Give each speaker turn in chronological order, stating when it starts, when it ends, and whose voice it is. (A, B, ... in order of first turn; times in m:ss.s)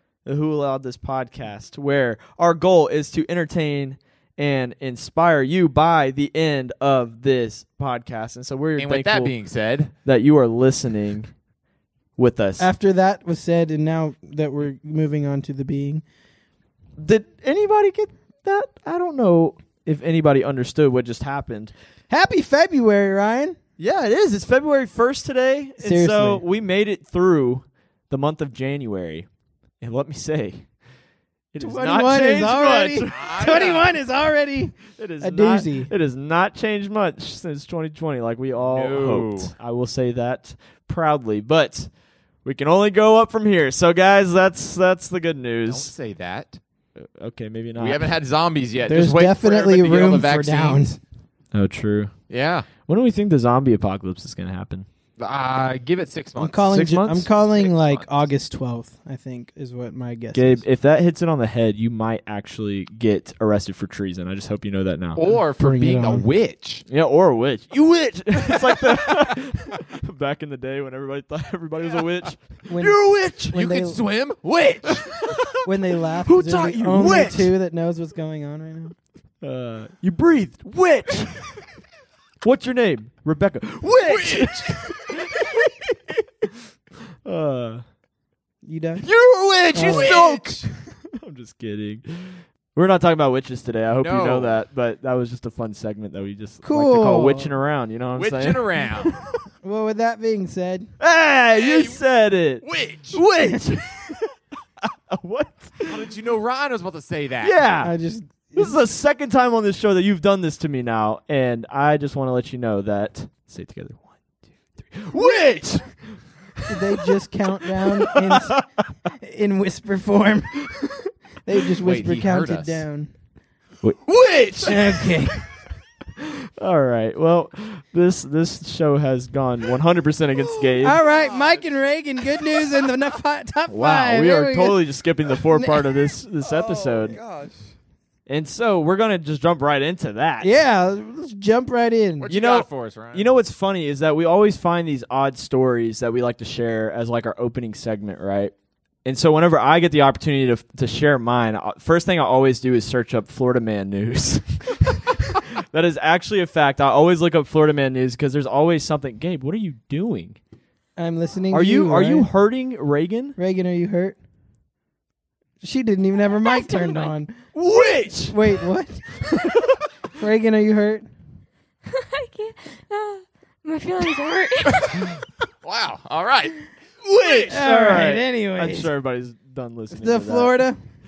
0:00.2-0:09.3 A
0:08.8-0:09.9 B
0:10.0-0:11.3 A
0:12.2-0:12.7 A
0:12.6-0:16.0 C
0:17.0-0:21.7 A
0:22.1-0:23.6 C
0:23.8-0:29.3 A
0:25.8-0:26.4 C
0:29.8-0:30.7 A
0:31.5-0:33.8 A
0:31.6-0:35.9 C
0:33.1-0:33.9 B
0:35.0-0:41.9 A
0:38.6-0:39.5 B
0:42.4-0:45.9 A
0:45.7-0:46.6 B
0:47.0-0:48.1 A
0:47.8-0:51.0 B
0:48.9-0:51.0 C
0:51.5-0:52.1 A
0:52.3-0:52.7 B
0:52.8-0:54.9 A
0:55.2-0:56.7 B
0:56.4-1:00.6 C
0:56.7-0:57.3 A
0:57.4-0:58.2 B
1:00.3-1:05.3 A
1:05.2-1:06.8 B
1:05.6-1:06.3 C
1:06.9-1:13.5 A
1:12.7-1:14.0 C
1:12.9-1:15.1 B
1:15.3-1:15.6 A
1:15.6-1:19.0 C
1:16.2-1:17.5 A
1:19.4-1:21.5 A
1:22.4-1:26.5 A
1:23.9-1:25.2 B
1:27.2-1:27.8 A
1:28.6-1:29.1 C
1:29.0-1:30.7 B
1:29.7-1:30.3 C
1:29.7-1:39.3 A
1:34.0-1:34.6 B
1:36.6-1:37.6 C
1:38.2-1:39.2 B
1:39.6-1:40.9 C
1:41.0-1:44.3 A
1:41.5-1:42.0 B
1:42.6-1:43.2 B
1:43.4-1:43.8 C
1:44.8-1:46.1 A
1:45.8-1:47.6 B
1:47.4-1:47.9 A
1:47.8-1:48.8 C
1:48.6-1:54.2 A
1:54.8-1:57.1 A
1:56.7-2:00.6 C
1:57.6-1:58.6 A
2:01.4-2:03.1 C
2:01.8-2:02.8 B
2:04.0-2:05.1 B
2:04.6-2:05.1 A
2:04.7-2:05.4 C
2:06.2-2:11.0 A
2:10.4-2:11.7 B
2:10.8-2:14.8 C
2:13.7-2:17.2 A
2:15.4-2:15.9 C
2:16.4-2:17.7 B
2:18.3-2:20.6 A
2:20.4-2:22.3 C
2:22.2-2:23.3 B
2:22.3-2:28.5 A
2:29.0-2:40.4 A
2:41.0-2:42.3 C
2:41.5-2:43.4 A
2:43.4-2:44.2 C
2:45.6-2:47.3 C
2:46.4-2:47.2 D
2:47.5-2:48.4 A
2:48.2-2:49.0 C
2:49.3-2:49.8 A
2:50.2-2:51.1 C
2:51.9-2:55.1 D
2:55.6-2:56.7 B
2:57.0-3:00.6 A
2:57.2-2:57.8 B
2:57.4-2:58.9 C
2:59.9-3:00.8 C